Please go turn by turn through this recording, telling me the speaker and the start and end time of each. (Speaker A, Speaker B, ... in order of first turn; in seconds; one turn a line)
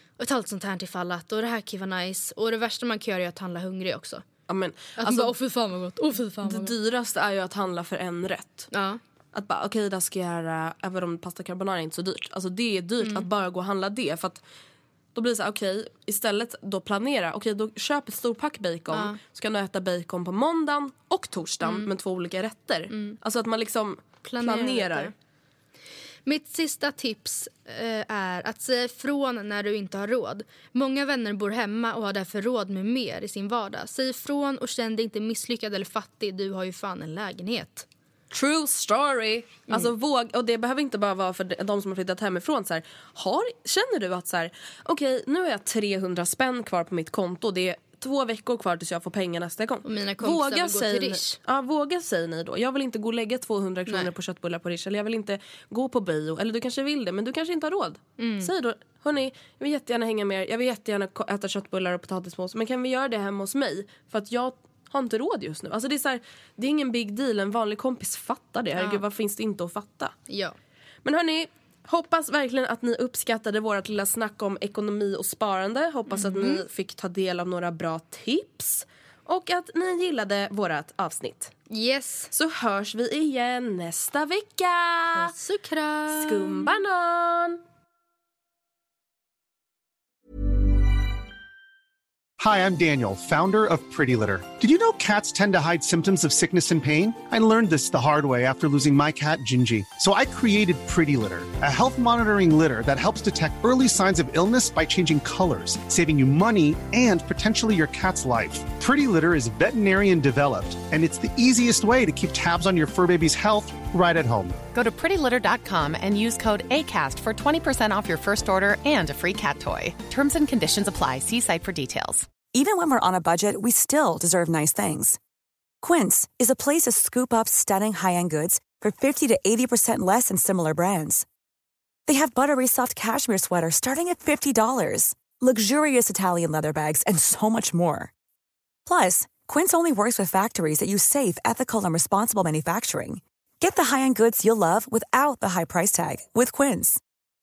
Speaker A: 0.2-4.2
Speaker B: 4.5-5.3
Speaker A: 5.0-6.7
Speaker B: 6.4-8.7
Speaker A: 8.7-9.0
Speaker B: 9.3-14.4
Speaker A: 13.0-13.3
Speaker B: 15.2-25.1
Speaker A: 18.9-19.2
Speaker A: 21.6-21.9
Speaker A: 24.2-25.1
Speaker A: 26.3-37.9
Speaker B: 38.3-70.2
Speaker A: 49.8-51.4
Speaker A: 58.2-58.5
Speaker A: 68.8-69.0
Speaker A: 70.3-70.6
Speaker B: 71.0-81.5
Speaker A: 76.1-76.6
Speaker A: 81.7-82.3
Speaker B: 82.3-85.3
Speaker A: 85.1-86.8
Speaker B: 86.1-87.6
Speaker C: 92.4-114.7
Speaker D: 114.7-122.3
Speaker E: 122.4-125.2
Speaker E: 125.8-131.2
Speaker E: 132.1-138.1
Speaker E: 138.9-147.0